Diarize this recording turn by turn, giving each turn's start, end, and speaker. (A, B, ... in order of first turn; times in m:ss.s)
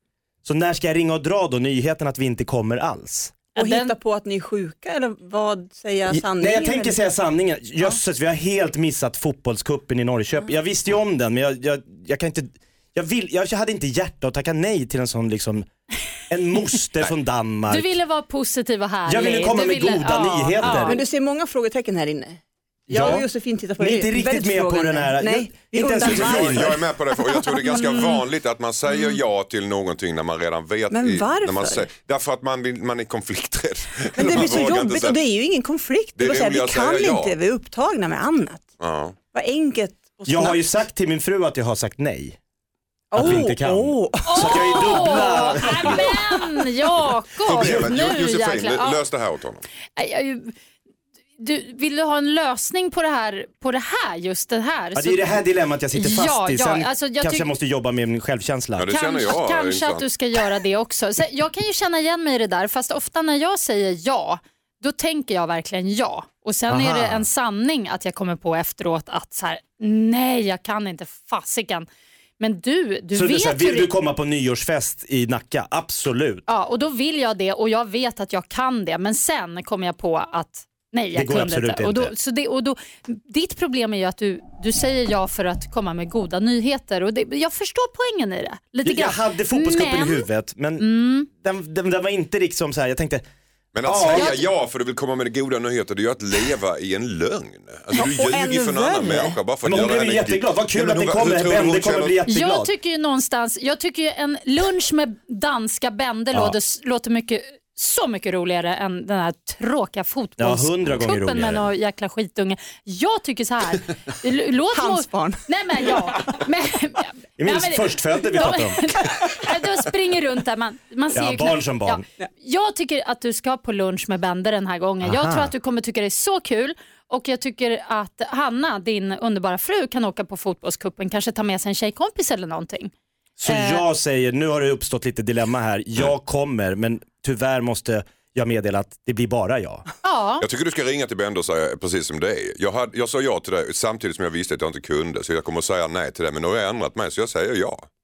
0:00.4-0:03.3 A
0:03.6-0:03.9 B
0:03.6-0:07.0 C
0:06.1-0:15.7 A
0:16.3-0:17.9 A
0:17.7-0:21.0 B
0:19.0-0:21.0 A
0:20.8-0:26.8 C
0:22.9-0:23.3 A
0:23.8-0:26.8 A
0:26.0-0:35.2 D
0:27.6-0:28.2 B
0:28.9-0:29.2 B
0:30.9-0:31.8 C
0:34.1-0:38.7 C
0:36.2-0:37.3 D
0:38.8-0:39.2 D
0:39.3-0:40.6 C
0:40.3-0:42.4 A
0:43.1-0:46.1 C
0:43.1-0:46.1 A
0:44.3-0:49.0 B
0:47.4-0:49.6 D
0:47.5-0:47.9 A
0:50.0-0:50.5 B
0:51.4-0:55.4 B
0:54.9-0:58.9 A
0:55.9-0:57.5 B
0:58.8-1:00.0 D
0:58.9-1:11.9 B
1:06.7-1:07.3 A
1:12.4-1:13.9 B
1:13.1-1:16.4 A
1:16.5-1:30.3 B
1:21.1-1:22.1 A
1:28.8-1:33.2 A
1:30.8-1:31.3 B
1:33.7-1:42.2 D
1:33.8-1:34.3 A
1:34.1-1:34.5 B
1:38.0-1:39.4 C
1:39.6-1:42.7 A
1:42.3-2:12.9 B
1:50.4-1:51.7 A
1:54.7-1:55.4 C
1:57.4-1:59.0 A
2:01.1-2:02.0 A
2:05.0-2:05.5 A
2:13.4-2:19.8 A
2:13.5-2:13.8 B
2:20.0-2:20.4 B
2:20.4-2:27.9 D